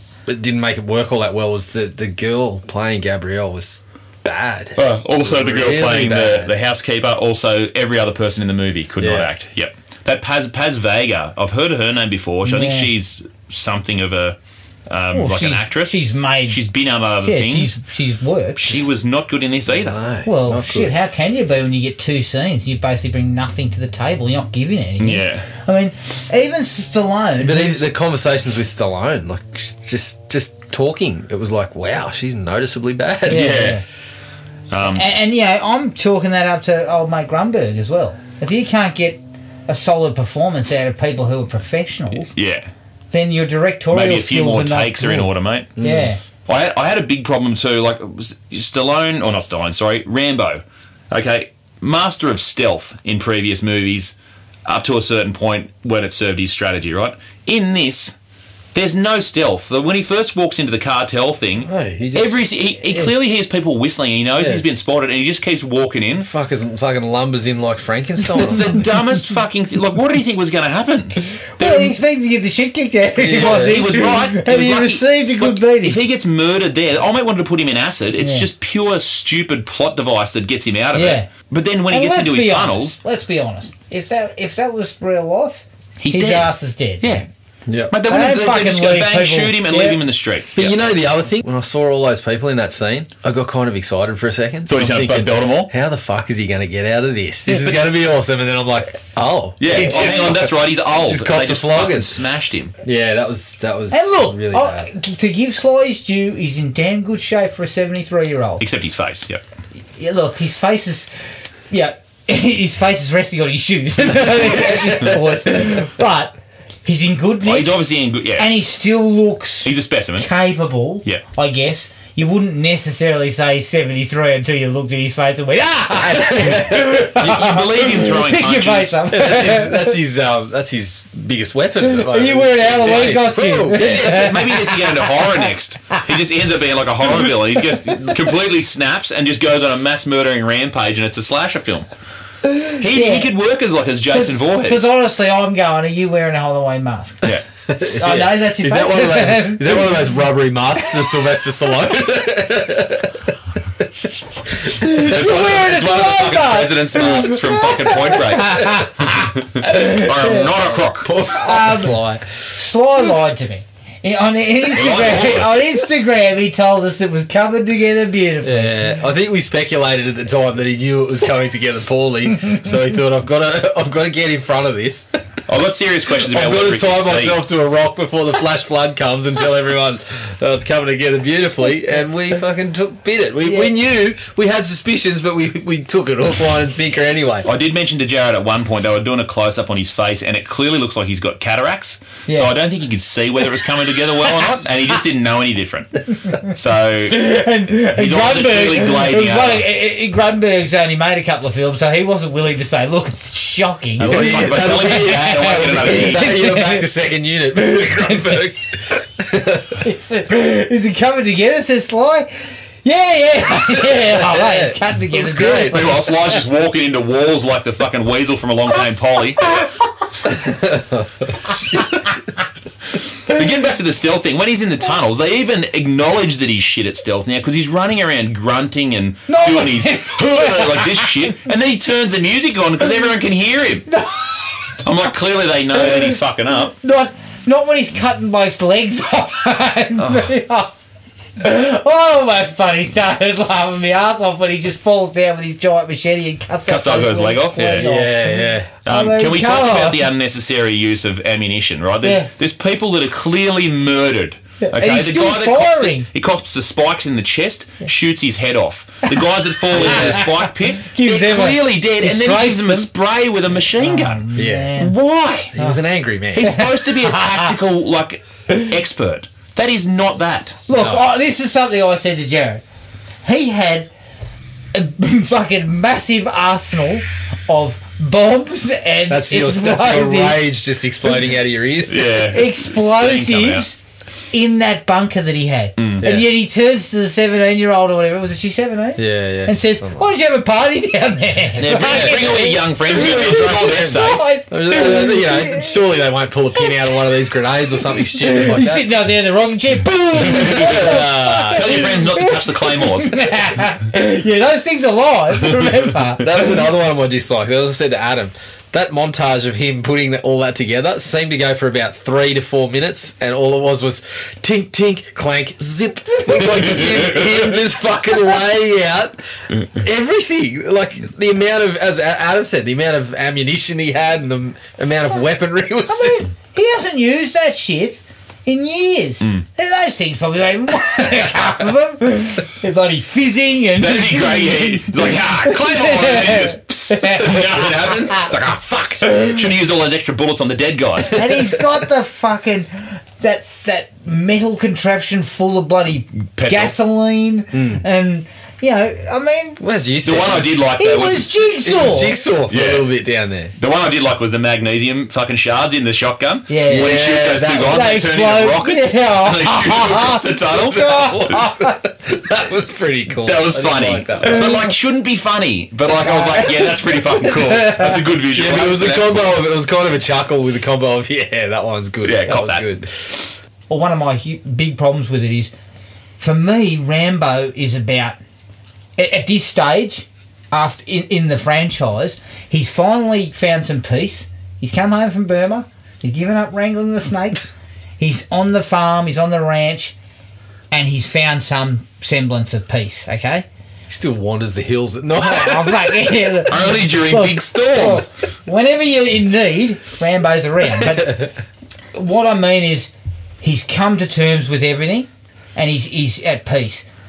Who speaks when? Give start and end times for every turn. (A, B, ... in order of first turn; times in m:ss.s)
0:00.3-0:06.5 A
0:04.8-0:14.4 B
0:09.0-0:09.3 A
0:12.4-0:12.9 C
0:14.9-0:17.8 B
0:15.1-0:16.6 C
0:17.2-0:18.9 C
0:18.6-0:20.0 B
0:19.7-0:21.0 A
0:20.2-0:27.9 C
0:25.0-0:25.5 B
0:27.4-0:33.6 A
0:33.3-0:33.8 B
0:33.3-0:33.8 C
0:34.7-0:35.1 B
0:34.8-0:42.3 C
0:42.3-0:42.7 B
0:43.1-0:46.2 C
0:43.9-0:45.7 B
0:45.8-0:46.1 A
0:46.5-0:54.1 B
0:54.6-0:58.1 B
0:58.7-1:06.3 B
1:01.6-1:02.4 A
1:04.4-1:04.6 A
1:06.2-1:08.8 A
1:08.4-1:12.0 B
1:11.6-1:16.0 C
1:13.2-1:14.0 A
1:13.3-1:23.0 B
1:18.2-1:18.5 C
1:20.9-1:21.3 C
1:21.9-1:27.2 C
1:26.0-1:27.2 B
1:27.7-1:27.9 A
1:27.9-1:30.8 B
1:28.0-1:30.0 C
1:30.6-1:42.2 A
1:34.7-1:35.7 B
1:39.6-1:42.7 B
1:42.8-1:44.9 A
1:43.9-1:48.6 C
1:48.6-1:49.4 B
1:50.0-1:51.1 C
1:51.7-1:57.8 C
1:54.1-1:55.4 A
1:57.4-1:58.5 B
1:58.4-2:10.0 C
1:59.6-2:00.3 B
2:06.1-2:06.9 A
2:07.0-2:09.0 B
2:09.1-2:14.3 A
2:11.8-2:15.4 C
2:13.7-2:21.9 B
2:22.6-2:23.3 C
2:22.6-2:24.9 B
2:24.1-2:27.3 C
2:27.7-2:33.3 A
2:28.0-2:30.0 C
2:34.6-2:35.8 A
2:34.8-2:40.5 C
2:34.9-2:41.1 B
2:40.9-2:42.4 A
2:41.3-2:48.9 C
2:44.7-2:45.8 B
2:48.4-2:55.1 A
2:55.5-2:57.4 B
2:56.2-3:07.5 A
3:07.4-3:17.2 B
3:17.1-3:26.9 C
3:18.0-3:19.6 B
3:24.0-3:26.3 B
3:24.0-3:28.6 A
3:27.5-3:28.5 C
3:29.2-3:29.8 A
3:29.7-3:32.3 C
3:32.8-3:36.1 C
3:33.7-3:36.0 A
3:35.6-3:39.6 B
3:40.3-3:41.8 A
3:43.3-3:53.9 B
3:49.3-3:51.3 C
3:53.9-3:54.4 C
3:54.8-3:56.8 B
3:55.8-3:56.2 C
3:56.8-4:00.7 C
4:01.4-4:10.1 C
4:06.6-4:07.9 B
4:07.6-4:08.7 A
4:08.8-4:24.2 B
4:12.0-4:12.3 C
4:14.6-4:16.1 C
4:19.7-4:20.3 A
4:19.7-4:22.9 C
4:23.8-4:24.9 C
4:24.4-4:24.8 A
4:24.8-4:25.6 B
4:25.5-4:26.5 A
4:26.3-4:30.6 B
4:26.4-4:27.5 C
4:30.7-4:32.6 C
4:30.7-4:31.0 A
4:33.2-4:33.9 C
4:34.7-4:40.5 C
4:39.1-4:42.2 A
4:41.9-4:43.6 B
4:42.3-4:43.8 C
4:44.3-4:55.8 C
4:45.8-4:46.1 B
4:46.0-4:46.3 A
4:49.0-4:50.1 A
4:51.6-4:54.3 B
4:51.6-4:58.9 A
4:56.6-4:57.0 C
4:58.0-5:06.4 C
5:00.2-5:01.9 A
5:00.4-5:03.3 B
5:06.2-5:26.3 A
5:25.9-5:38.3 C
5:33.8-5:41.2 B
5:41.1-5:49.6 C
5:46.3-5:46.7 B
5:47.5-5:47.8 A
5:49.6-5:50.7 A
5:50.0-5:51.3 B
5:50.8-5:52.2 C
5:51.6-5:53.5 A
5:52.5-5:52.9 B
5:53.6-6:01.4 B
5:56.5-5:57.0 C
5:56.7-5:58.1 A
5:57.6-6:01.8 C
6:00.5-6:04.6 A
6:03.2-6:09.4 B
6:04.2-6:04.6 C
6:06.0-6:08.0 C
6:08.3-6:13.2 A
6:12.0-6:12.6 B
6:13.7-6:15.5 C
6:16.2-6:18.2 C
6:19.0-6:27.5 C
6:28.0-6:29.9 C
6:30.7-6:33.5 C
6:33.9-6:36.4 A
6:35.2-6:41.3 C
6:36.5-6:38.1 B
6:41.9-6:42.9 C
6:43.4-6:46.8 C